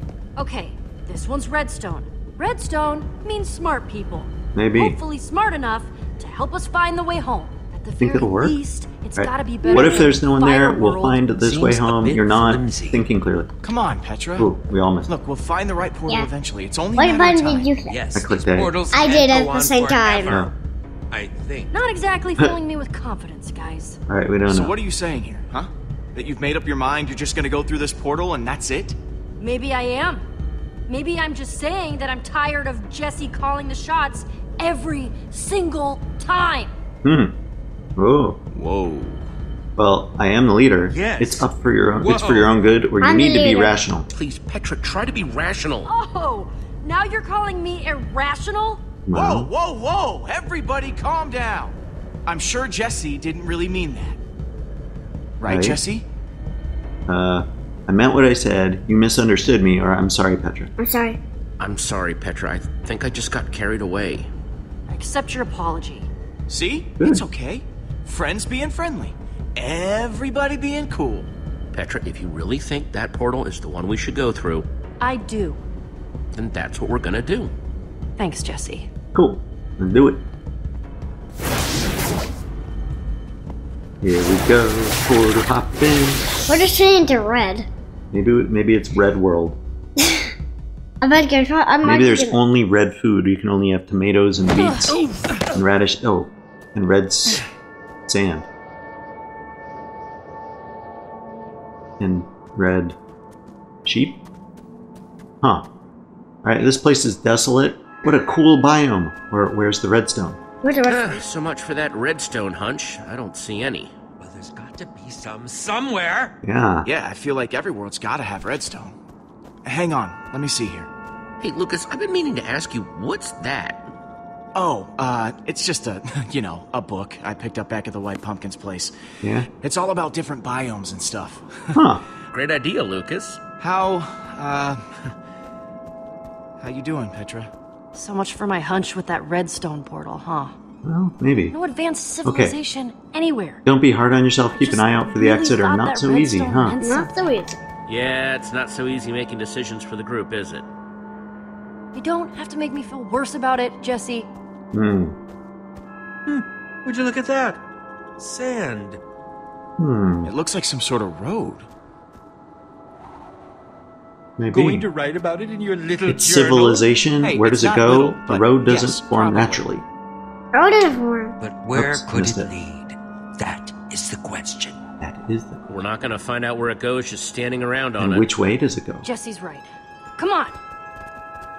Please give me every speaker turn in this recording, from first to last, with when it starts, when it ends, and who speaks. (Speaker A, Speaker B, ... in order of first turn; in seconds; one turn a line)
Speaker A: 0.4-11.3
Speaker B: 4.5-5.0
Speaker B: 8.0-8.6
Speaker B: 9.2-13.5
Speaker C: 11.4-13.0
Speaker D: 13.6-14.5
Speaker B: 14.3-15.1
Speaker D: 15.0-17.7
Speaker E: 16.9-18.0
Speaker C: 17.9-20.5
Speaker B: 18.1-18.8
Speaker E: 18.9-20.3
Speaker B: 20.2-20.5
Speaker C: 21.1-21.7
Speaker A: 21.7-24.0
Speaker B: 24.1-24.8
Speaker D: 24.4-29.0
Speaker A: 29.4-30.2
Speaker A: 30.9-36.7
Speaker B: 37.0-37.3
Speaker B: 38.0-38.4
Speaker D: 38.5-39.2
Speaker B: 39.8-44.1
Speaker C: 40.9-41.5
Speaker C: 42.0-42.6
Speaker E: 43.0-43.8
Speaker F: 44.1-45.9
Speaker A: 45.9-48.8
Speaker B: 49.1-49.5
Speaker D: 49.1-54.2
Speaker D: 55.4-56.0
Speaker B: 55.4-55.8
Speaker B: 57.1-60.7
Speaker E: 60.8-61.2
Speaker F: 61.6-64.3
Speaker A: 64.9-66.1
Speaker D: 66.5-71.3
Speaker B: 67.0-67.2
Speaker F: 71.7-74.7
Speaker A: 75.0-75.6
Speaker F: 76.3-77.5
Speaker A: 78.2-78.9
Speaker B: 79.1-80.2
Speaker B: 84.0-86.2
Speaker E: 86.5-87.7
Speaker B: 88.1-89.6
Speaker E: 90.0-90.3
Speaker E: 91.0-92.4
Speaker B: 91.8-97.4
Speaker A: 94.5-95.3
Speaker B: 98.1-98.5
Speaker B: 102.0-103.0
Speaker B: 103.8-104.2
Speaker B: 105.4-105.7
Speaker B: 106.4-110.4
Speaker E: 110.6-111.2
Speaker F: 110.8-113.9
Speaker C: 114.2-116.3
Speaker B: 116.4-116.9
Speaker D: 116.8-119.0
Speaker D: 119.6-120.9
Speaker F: 121.4-123.9
Speaker D: 124.5-128.9
Speaker B: 129.2-129.5
Speaker D: 129.6-131.8
Speaker B: 131.7-132.0
Speaker F: 132.3-133.4
Speaker D: 133.6-134.8
Speaker D: 136.6-137.5
Speaker A: 137.9-140.5
Speaker B: 140.8-141.5
Speaker A: 141.5-143.6
Speaker B: 142.2-142.6
Speaker B: 143.6-146.8
Speaker A: 144.4-147.6
Speaker E: 146.8-147.5
Speaker F: 147.9-150.7
Speaker A: 151.9-154.3
Speaker B: 154.7-155.2
Speaker C: 156.3-157.6
Speaker C: 158.2-159.0
Speaker B: 159.8-160.3
Speaker D: 160.2-161.7
Speaker B: 164.4-164.8
Speaker C: 164.5-166.8
Speaker B: 166.0-169.8
Speaker D: 167.2-169.5
Speaker A: 169.2-169.6
Speaker E: 170.5-171.3
Speaker C: 171.4-174.8
Speaker B: 171.7-172.5
Speaker B: 175.0-175.8
Speaker F: 175.7-178.3
Speaker B: 178.0-179.0
Speaker A: 179.0-180.5